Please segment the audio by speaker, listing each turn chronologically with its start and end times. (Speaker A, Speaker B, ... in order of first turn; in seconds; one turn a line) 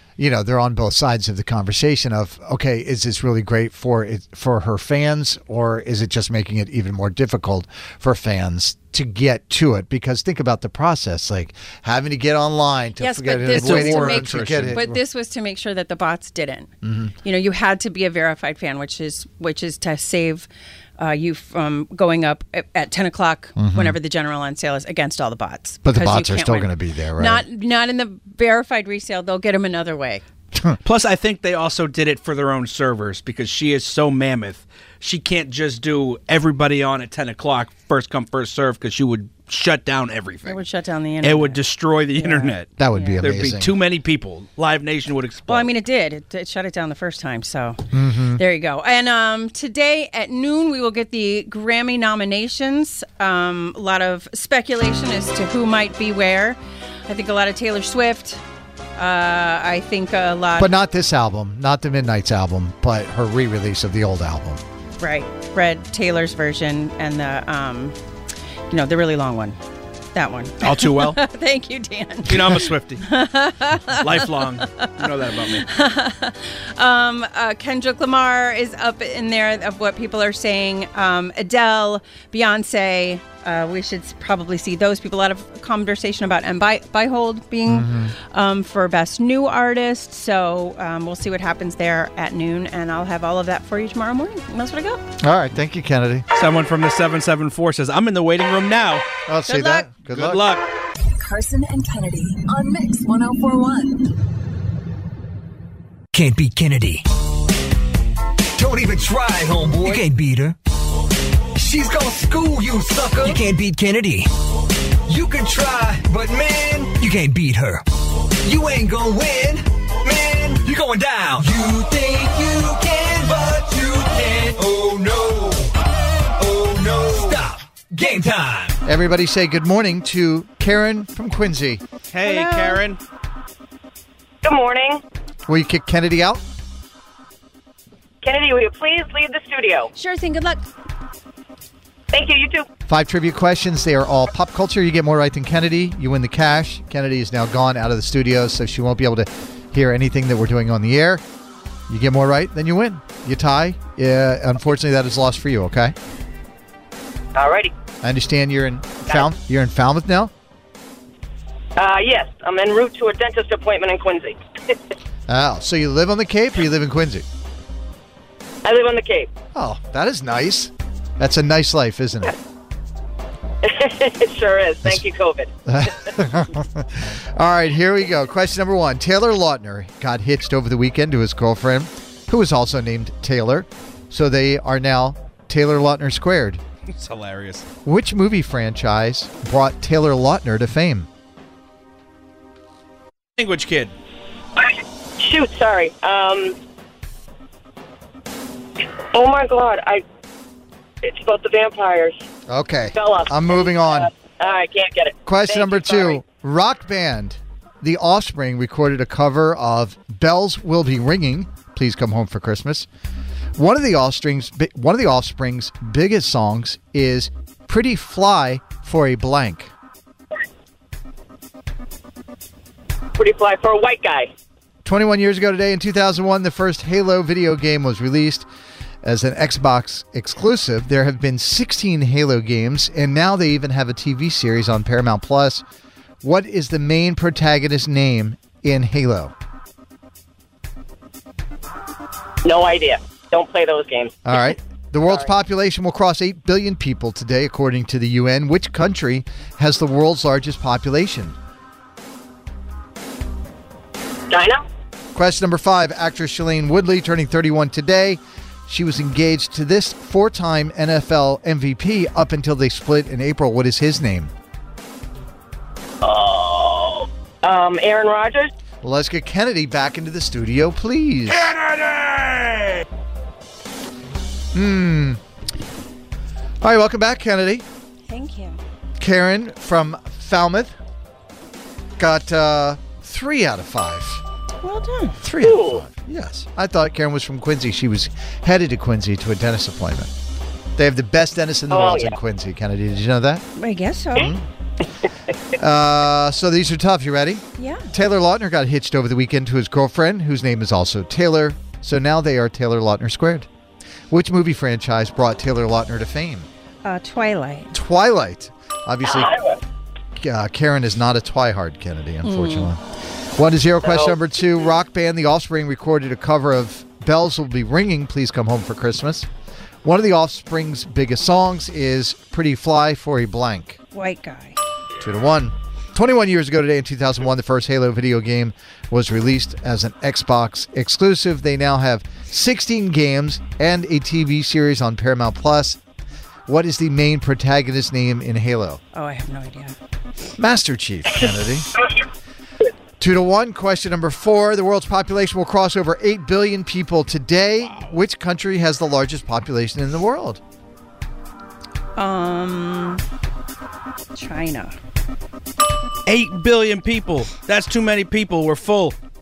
Speaker A: 0.2-15.0
Speaker B: 13.0-16.7
Speaker C: 13.5-14.8
Speaker A: 16.8-17.1
Speaker B: 17.2-30.2
Speaker A: 23.6-24.0
Speaker A: 25.8-27.4
Speaker A: 30.5-30.8
Speaker C: 30.8-40.6
Speaker B: 40.5-41.6
Speaker C: 41.2-42.7
Speaker B: 42.2-43.2
Speaker A: 42.8-43.7
Speaker C: 43.2-45.7
Speaker B: 45.5-47.8
Speaker A: 47.9-48.4
Speaker B: 48.4-58.4
Speaker B: 59.0-60.7
Speaker A: 60.6-64.6
Speaker B: 65.0-67.9
Speaker B: 68.7-69.6
Speaker B: 70.1-95.0
Speaker C: 70.6-71.2
Speaker C: 72.3-73.0
Speaker C: 73.9-75.7
Speaker A: 87.7-88.1
Speaker A: 95.2-96.2
Speaker C: 96.3-99.0
Speaker A: 99.3-100.4
Speaker B: 99.5-99.9
Speaker C: 100.1-100.6
Speaker D: 101.2-104.0
Speaker E: 106.1-107.0
Speaker E: 108.5-110.5
Speaker E: 111.5-114.3
Speaker E: 115.0-117.8
Speaker E: 118.4-125.7
Speaker E: 126.4-128.8
Speaker A: 128.8-131.8
Speaker C: 132.1-133.0
Speaker B: 132.2-132.8
Speaker F: 134.4-135.0
Speaker A: 135.5-136.4
Speaker F: 138.2-139.9
Speaker B: 139.9-140.6
Speaker F: 142.1-142.7
Speaker A: 142.9-151.2
Speaker A: 151.9-155.9
Speaker F: 157.3-157.7
Speaker A: 158.0-160.3
Speaker F: 161.8-164.4
Speaker A: 165.3-167.2
Speaker F: 168.6-169.3
Speaker A: 169.5-172.3
Speaker F: 173.6-175.5
Speaker A: 175.7-186.6
Speaker C: 186.9-187.6
Speaker A: 187.8-191.1
Speaker C: 193.4-193.9
Speaker F: 195.2-196.5
Speaker F: 199.1-200.0
Speaker F: 201.0-202.2
Speaker A: 202.5-204.1
Speaker F: 202.9-206.2
Speaker A: 205.2-212.9
Speaker A: 213.6-219.7
Speaker F: 223.2-224.3
Speaker A: 224.8-228.5
Speaker A: 229.0-235.6
Speaker A: 236.2-239.3
Speaker F: 242.4-244.2
Speaker A: 244.2-251.3
Speaker F: 254.3-254.6
Speaker A: 255.1-264.3
Speaker F: 266.0-268.5
Speaker A: 268.8-271.5
Speaker A: 274.5-275.2
Speaker A: 276.6-277.6
Speaker B: 278.1-278.6
Speaker A: 279.0-280.7
Speaker A: 282.0-284.2
Speaker B: 284.6-285.2
Speaker A: 285.2-290.1
Speaker F: 285.4-285.8
Speaker A: 290.8-293.4
Speaker F: 291.7-292.1
Speaker B: 293.6-294.3
Speaker A: 294.1-294.4
Speaker A: 295.6-303.5
Speaker B: 297.6-297.9
Speaker A: 304.1-306.5
Speaker B: 306.8-307.7
Speaker A: 307.7-309.3
Speaker F: 309.1-309.4
Speaker A: 310.2-312.8
Speaker B: 312.2-312.7
Speaker A: 313.4-319.3
Speaker F: 313.8-314.1
Speaker A: 319.8-323.8
Speaker B: 323.9-324.6
Speaker A: 325.0-335.8
Speaker A: 336.5-338.8
Speaker B: 338.9-339.8
Speaker A: 340.4-341.7
Speaker A: 343.0-350.4
Speaker B: 351.9-353.0
Speaker B: 354.1-354.7
Speaker C: 356.1-358.9